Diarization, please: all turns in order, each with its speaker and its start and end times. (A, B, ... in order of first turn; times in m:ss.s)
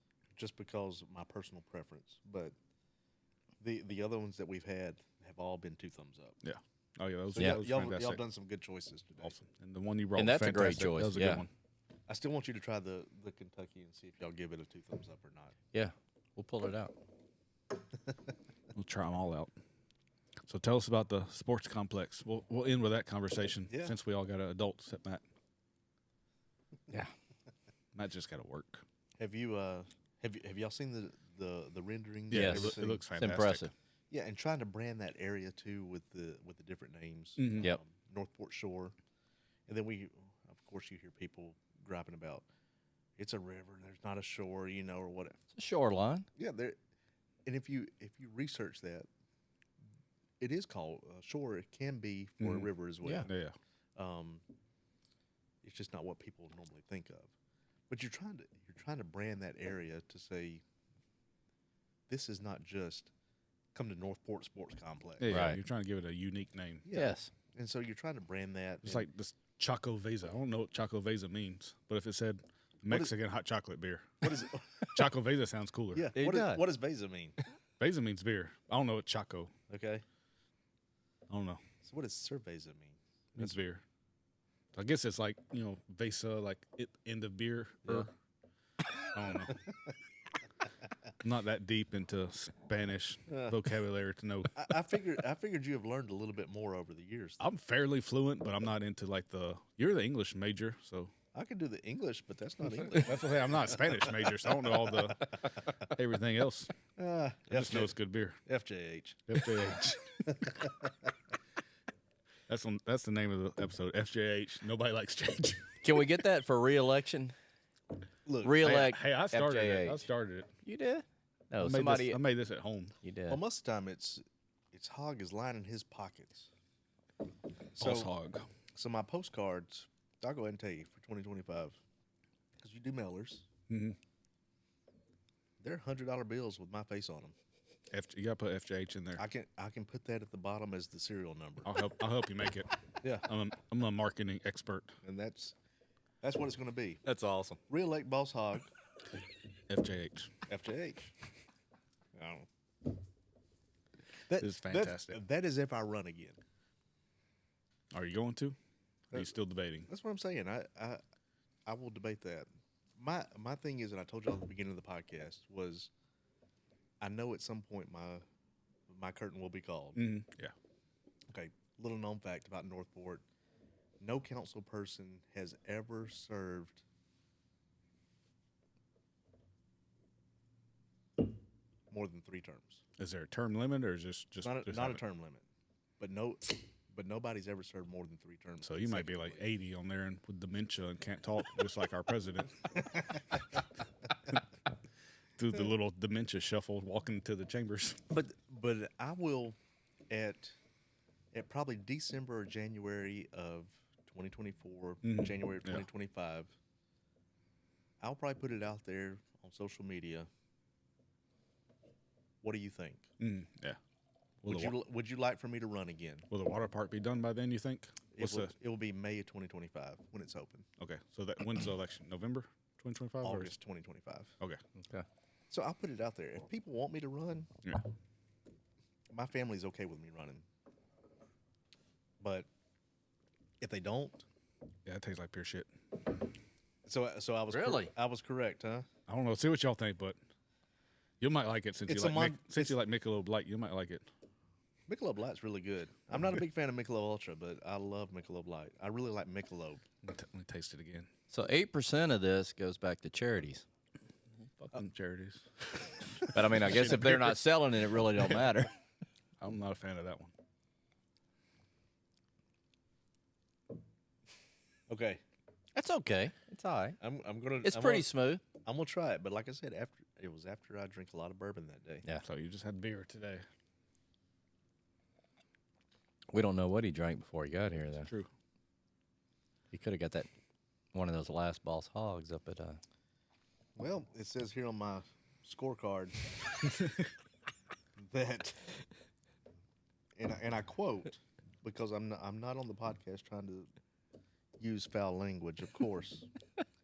0:00.4-0:02.5 A
0:03.6-0:06.4 A
0:06.4-0:08.2 B
0:07.3-0:09.3 A
0:09.2-0:11.5 B
0:10.2-0:11.4 C
0:12.1-0:15.6 A
0:15.7-0:17.0 C
0:18.8-0:19.5 B
0:20.5-0:25.2 B
0:23.7-0:24.0 A
0:28.0-0:28.8 B
0:29.2-0:33.1 A
0:32.3-0:33.7 B
0:32.3-0:33.7 C
0:34.1-0:38.9 A
0:37.4-0:37.7 B
0:39.7-0:42.4 A
0:43.2-0:45.4 A
0:45.5-0:46.3 C
0:46.4-0:46.8 A
0:47.5-0:49.1 A
0:50.4-0:53.3 A
0:52.4-0:52.7 B
0:53.2-0:53.6 B
0:54.0-0:54.4 A
0:55.6-0:57.3 A
0:57.9-1:00.6 A
1:02.1-1:03.1 A
1:03.7-1:05.4 A
1:05.2-1:06.8 B
1:05.3-1:05.6 C
1:06.8-1:09.1 A
1:06.9-1:07.3 C
1:08.8-1:16.1 B
1:12.9-1:13.2 A
1:14.2-1:14.9 A
1:15.9-1:17.4 A
1:16.2-1:16.6 C
1:17.8-1:19.5 B
1:19.7-1:20.0 A
1:21.3-1:21.6 B
1:21.8-1:23.6 A
1:23.4-1:23.8 B
1:24.8-1:28.1 B
1:29.1-1:29.6 B
1:31.2-1:34.7 B
1:33.3-1:33.6 A
1:34.6-1:37.4 A
1:37.4-1:41.1 B
1:41.3-1:45.0 A
1:42.8-1:46.7 B
1:47.0-1:49.4 A
1:47.5-1:48.4 B
1:49.3-1:50.3 B
1:50.4-1:50.9 A
1:52.5-1:55.8 B
1:55.8-1:57.3 C
1:58.3-1:58.6 A
1:58.4-2:00.0 C
1:58.6-2:00.5 B
2:00.6-2:02.2 C
2:01.6-2:03.0 B
2:03.0-2:03.4 C
2:03.3-2:06.5 A
2:07.8-2:08.1 A
2:07.8-2:08.5 B
2:08.8-2:11.8 A
2:12.6-2:13.5 A
2:13.7-2:14.0 B
2:15.6-2:17.4 A
2:17.9-2:19.2 B
2:19.2-2:21.7 A
2:21.6-2:25.0 B
2:23.0-2:23.3 A
2:25.0-2:25.6 A
2:26.2-2:27.0 A
2:27.0-2:27.6 C
2:27.7-2:28.7 A
2:29.7-2:30.3 B
2:30.5-2:31.1 A
2:32.2-2:32.5 A
2:34.3-2:36.4 A
2:34.4-2:35.2 B
2:37.9-2:38.6 B
2:39.1-2:39.9 B
2:39.9-2:41.0 A
2:41.7-2:45.9 A
2:47.0-2:48.2 A
2:48.9-2:50.0 A
2:50.0-2:50.5 B
2:51.3-2:53.2 A
2:54.0-2:56.8 A
3:01.9-3:02.8 A
3:03.0-3:05.0 B
3:04.4-3:05.4 A
3:06.0-3:09.5 A
3:08.6-3:12.7 B
3:15.4-3:18.0 B
3:18.1-3:19.6 A
3:20.1-3:20.6 A
3:21.3-3:26.6 A
3:25.0-3:25.8 B
3:28.0-3:30.3 A
3:32.4-3:33.1 A
3:33.2-3:33.8 B
3:34.4-3:34.8 B
3:34.5-3:36.3 A
3:36.3-3:38.5 B
3:38.1-3:40.7 A
3:40.8-3:43.6 B
3:43.2-3:44.3 A
3:45.5-3:47.5 A
3:49.1-3:50.4 A
3:52.2-3:52.5 A
3:53.6-3:54.2 A
3:54.9-3:55.7 B
3:56.9-3:58.9 A
3:57.5-3:57.9 C
3:59.1-4:00.2 B
4:01.2-4:04.1 B
4:01.9-4:02.8 A
4:04.9-4:09.8 A
4:10.0-4:11.1 B
4:11.3-4:13.6 C
4:14.6-4:17.4 B
4:16.3-4:18.7 C
4:19.4-4:20.3 B
4:24.9-4:25.2 A
4:25.7-4:27.0 C
4:27.0-4:28.1 A
4:27.6-4:28.4 C
4:28.6-4:32.1 A
4:32.2-4:33.4 B
4:36.3-4:38.1 C
4:38.0-4:38.3 B
4:39.7-4:40.3 C
4:40.9-4:42.8 C
4:43.8-4:46.2 A
4:48.0-4:48.8 A
4:50.2-4:53.7 A
4:54.6-4:56.3 A